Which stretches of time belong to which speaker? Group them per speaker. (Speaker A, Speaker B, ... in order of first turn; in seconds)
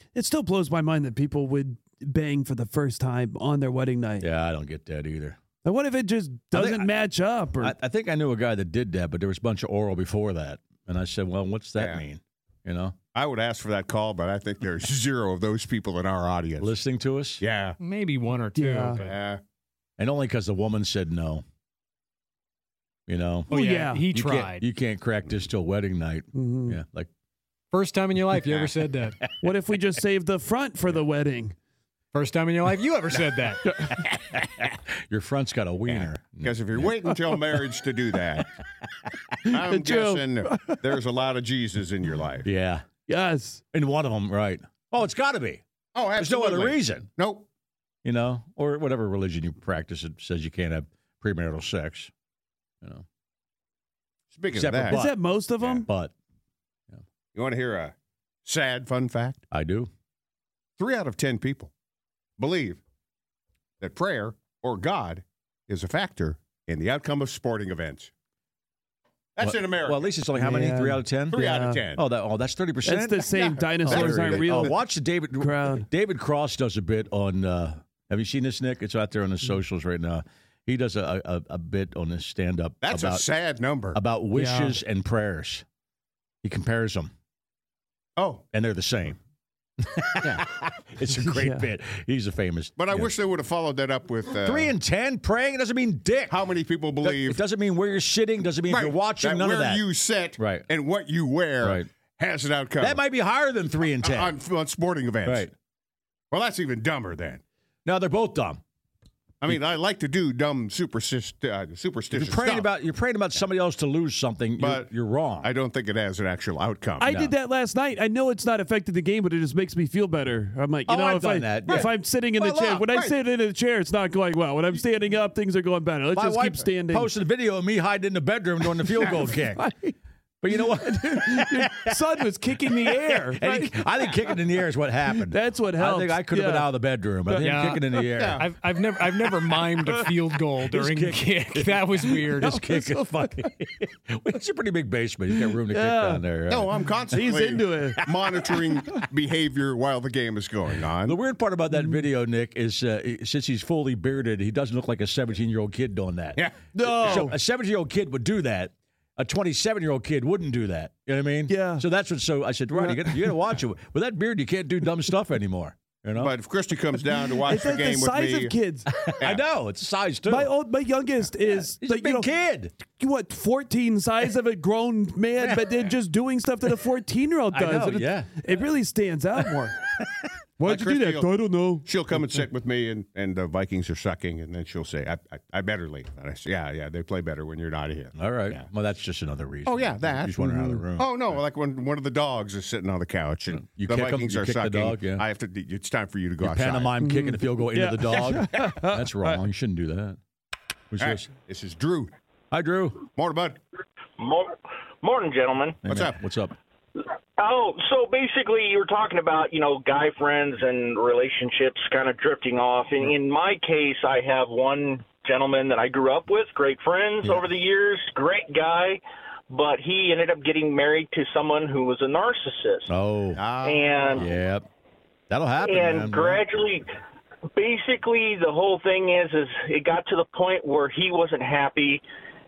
Speaker A: 0.1-4.3, 5.6-7.7, 18.6-19.0, 23.6-24.0, 26.4-26.8, 29.4-31.6, 39.6-40.8, 43.1-43.6, 54.9-55.8, 70.4-71.8, 72.8-74.8, 75.4-75.8, 84.3-84.7, 91.2-91.6, 117.0-127.1, 128.8-129.9, 130.5-133.7, 135.1-136.7, 137.2-138.1, 139.8-140.1, 142.0-143.3, 145.7-146.2, 147.1-148.0, 156.7-157.3, 161.5-161.8, 162.8-163.2, 167.5-168.9, 170.3-172.2, 172.9-179.7, 180.6-181.9, 197.0-199.4
Speaker B: 4.2-5.4, 6.5-6.9, 7.6-13.0, 16.6-17.4, 20.0-21.4, 23.1-27.1, 28.3-29.5, 33.7-37.0, 42.4-42.9, 43.7-45.6, 46.2-47.1, 48.0-52.1, 54.5-55.2, 55.8-56.1, 59.5-59.9, 69.4-73.4, 73.9-83.3, 83.9-85.7, 86.4-87.1, 88.5-89.2, 89.8-93.2, 94.3-96.4, 97.0-99.9, 100.4-100.7, 101.6-101.9, 102.8-104.4, 105.2-105.5, 107.8-108.6, 112.1-115.5, 117.0-117.3, 120.8-122.9, 126.1-129.7, 130.4-138.5, 140.7-147.2, 148.0-149.0, 150.8-156.5, 157.0-166.3, 168.9-170.6, 171.5-172.8, 175.4-175.9, 177.5-178.7, 179.4-180.3, 188.2-191.4, 193.5-195.2, 196.4-200.2, 200.9-201.3, 202.5-203.1, 205.8-206.6, 217.2-217.5, 222.9-223.5, 224.2-224.7, 225.3-226.5
Speaker C: 11.8-12.1, 13.1-16.8, 17.4-17.8, 19.0-19.4, 35.9-38.5, 39.5-42.5, 45.9-47.5, 54.3-55.0, 55.6-55.9, 57.3-57.9, 58.5-59.4, 60.8-61.7, 62.4-62.8, 63.8-68.1, 69.4-70.2, 71.3-72.0, 73.3-74.7, 82.8-84.0, 88.2-88.4, 92.8-94.8, 96.3-97.4, 98.7-103.0, 104.0-105.5, 106.3-107.4, 109.4-112.7, 114.6-117.2, 138.2-138.5, 146.5-151.2, 156.3-157.3, 166.2-168.5, 180.7-181.3, 181.8-188.7, 189.7-190.4, 190.9-197.0, 201.0-202.1, 203.1-203.6, 205.9-206.2, 223.3-224.3
Speaker D: 17.8-19.2, 23.5-24.7, 27.7-29.2, 32.1-33.6, 137.4-137.8, 138.3-142.5
Speaker E: 204.2-205.8, 207.4-222.9, 223.6-224.3, 225.6-226.8, 227.6-232.0